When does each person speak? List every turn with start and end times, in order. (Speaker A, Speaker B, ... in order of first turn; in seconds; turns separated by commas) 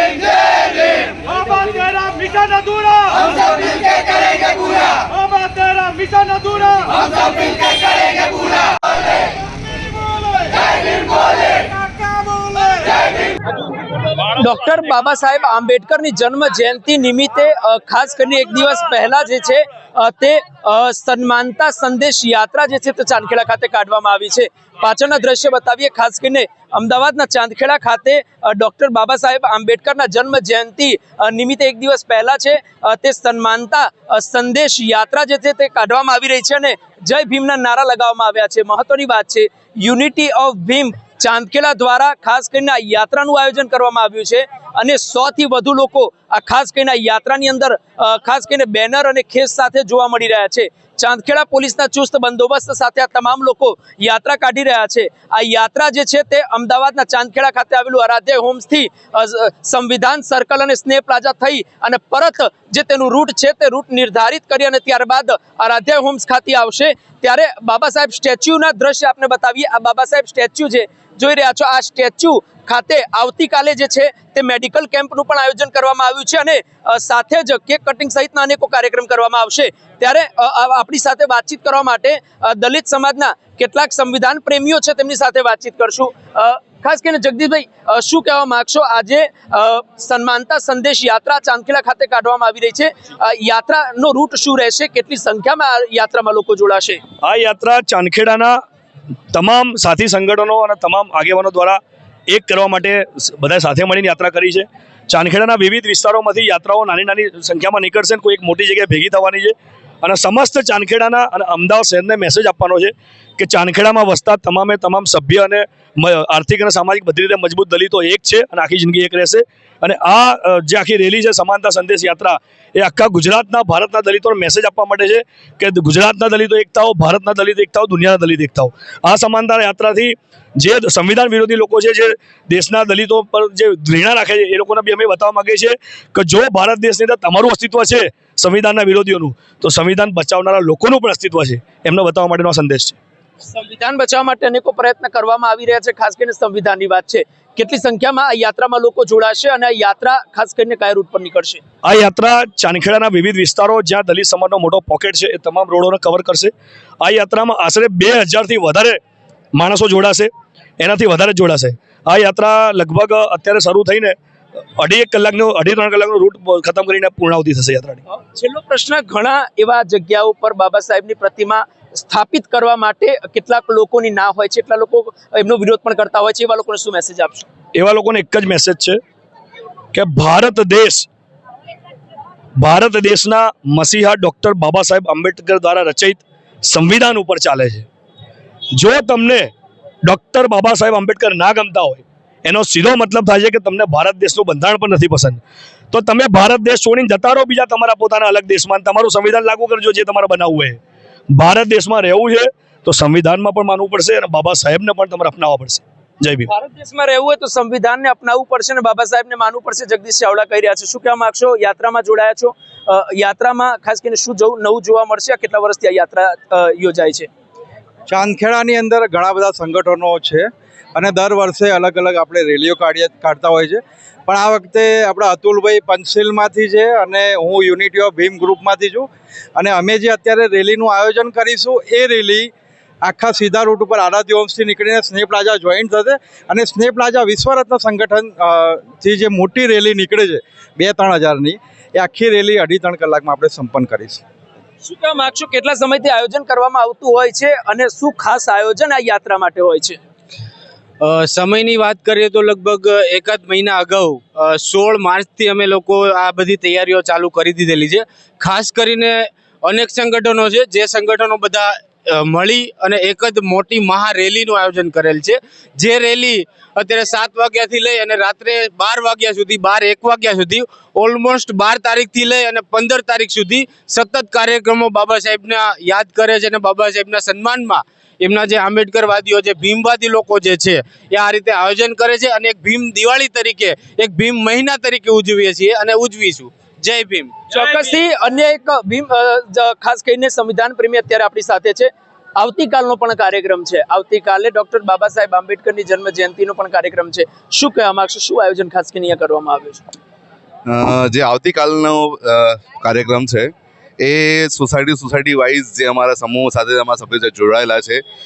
Speaker A: 1.9-2.6, Speaker A: 14.3-97.0, Speaker B: 97.2-98.5, Speaker B: 99.3-143.0, Speaker A: 143.4-151.6, Speaker B: 151.8-159.0, Speaker B: 159.6-164.2, Speaker B: 164.8-168.0, Speaker A: 168.1-177.5, Speaker B: 177.8-179.0, Speaker B: 179.9-181.1, Speaker B: 182.6-187.9, Speaker B: 188.8-189.5, Speaker B: 190.1-195.4, Speaker B: 195.9-200.8, Speaker B: 201.3-206.5, Speaker A: 206.5-217.3, Speaker C: 218.1-232.5, Speaker C: 233.0-244.2, Speaker A: 244.8-250.0, Speaker D: 251.0-287.5, Speaker A: 287.5-299.8, Speaker E: 300.7-308.0